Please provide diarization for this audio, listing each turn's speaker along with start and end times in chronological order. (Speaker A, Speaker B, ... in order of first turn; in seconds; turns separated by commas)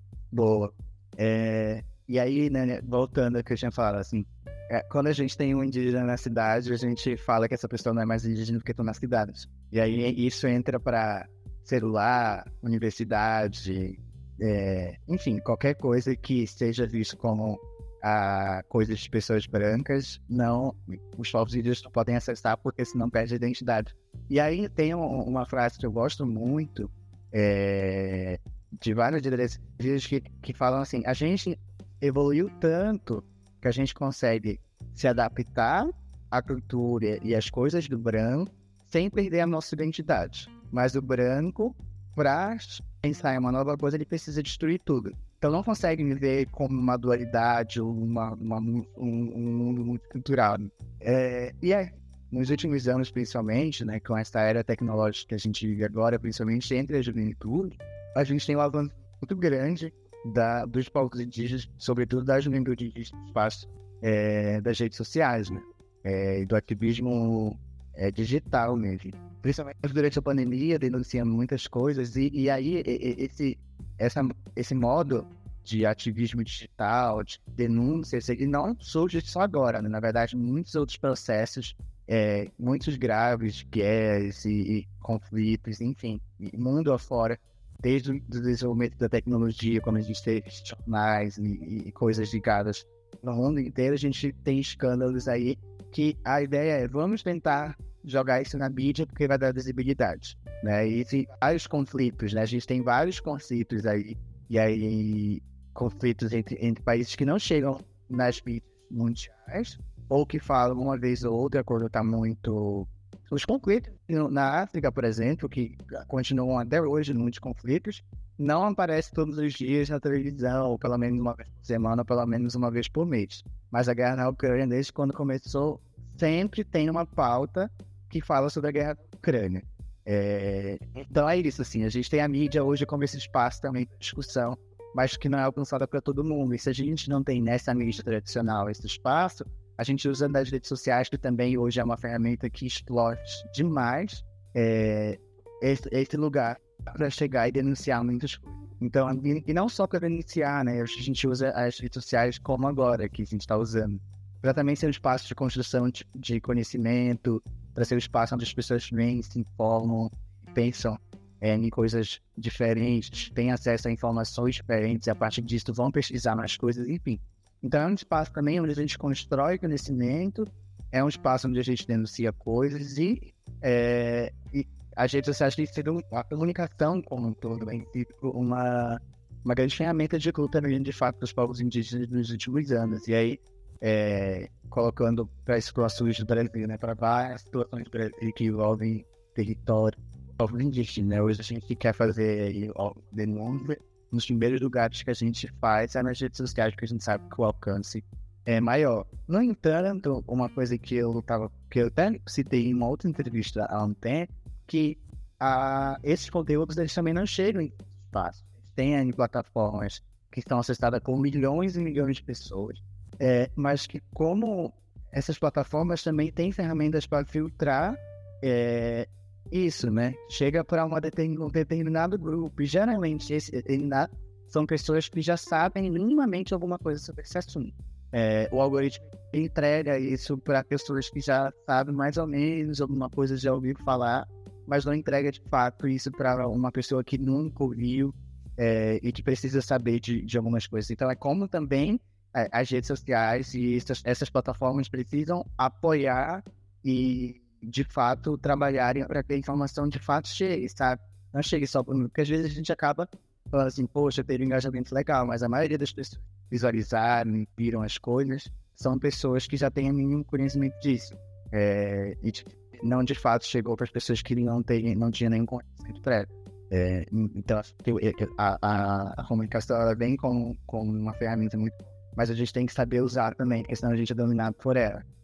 Speaker A: 0.3-275.0